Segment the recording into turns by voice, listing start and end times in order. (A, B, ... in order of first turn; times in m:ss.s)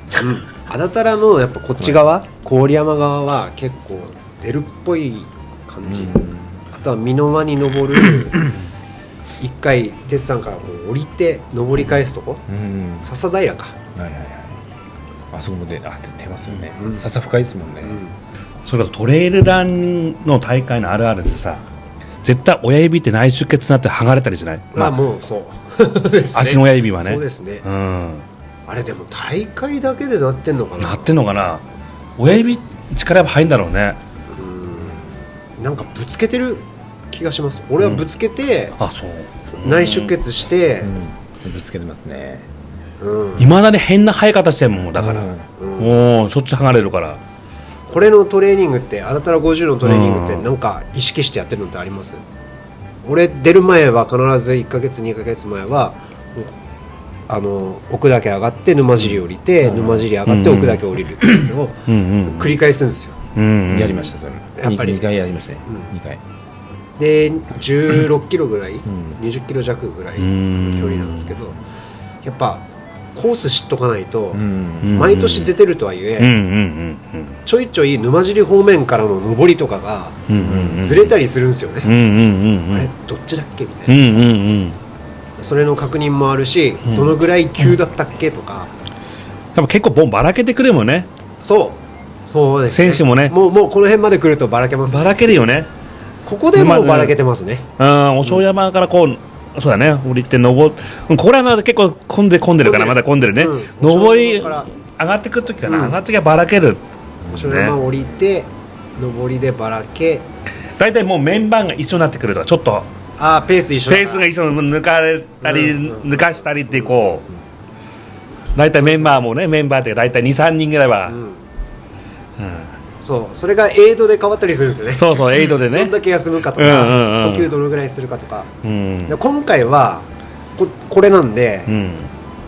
0:00.1-0:06.2 A
0:05.9-0:06.6 B
0:06.7-0:08.5 A
0:09.4-0:12.4 A
0:12.5-0:13.1 B
0:13.0-0:13.8 A
0:14.0-0:14.6 B
0:15.3-0:18.0 B
0:16.7-0:17.1 A
0:17.8-0:18.1 A
0:18.6-0:21.6 C
0:22.2-0:25.0 C
0:24.7-0:27.6 A
0:26.3-0:28.2 C
0:28.7-0:31.2 A
0:30.8-0:31.6 C
0:32.2-0:34.0 C
0:34.3-0:38.8 A
0:37.8-0:38.0 C
0:38.8-0:40.1 C
0:39.5-0:40.9 A
0:40.8-0:42.5 B
0:43.0-0:43.5 A
0:43.4-0:47.2 C
0:45.0-0:45.5 B
0:45.6-0:46.0 A
0:47.9-0:52.2 A
0:49.8-0:50.5 C
0:53.0-0:56.5 A
0:57.3-1:03.2 A
0:59.0-1:00.2 B
1:00.3-1:00.8 C
1:01.9-1:02.6 C
1:03.4-1:04.1 C
1:03.7-1:06.2 B
1:04.6-1:05.1 A
1:07.0-1:11.6 A
1:08.9-1:09.2 B
1:10.2-1:11.3 C
1:12.2-1:16.4 A
1:14.3-1:15.1 B
1:14.8-1:15.5 C
1:16.2-1:17.4 C
1:17.4-1:21.9 A
1:20.3-1:21.1 C
1:20.4-1:21.0 B
1:21.8-1:22.9 C
1:22.7-1:24.3 A
1:23.9-1:24.8 C
1:25.4-1:28.7 A
1:26.9-1:27.1 C
1:29.6-1:31.1 C
1:31.4-1:35.4 A
1:32.7-1:33.4 C
1:34.9-1:35.7 C
1:36.2-1:37.6 A
1:36.5-1:37.2 C
1:37.8-1:46.8 C
1:42.6-1:44.7 A
1:45.6-1:46.0 A
1:47.2-1:48.1 B
1:47.3-1:50.2 A
1:47.3-1:47.8 C
1:50.8-1:52.9 C
1:53.2-1:54.2 A
1:53.9-1:57.2 C
1:55.4-1:57.4 A
1:58.6-2:01.2 C
1:58.7-1:59.3 A
2:01.1-2:01.4 A
2:02.4-2:02.7 C
2:03.0-2:08.5 A
2:05.0-2:06.0 C
2:06.5-2:07.5 C
2:08.6-2:09.2 C
2:09.1-2:11.7 A
2:11.7-2:12.1 C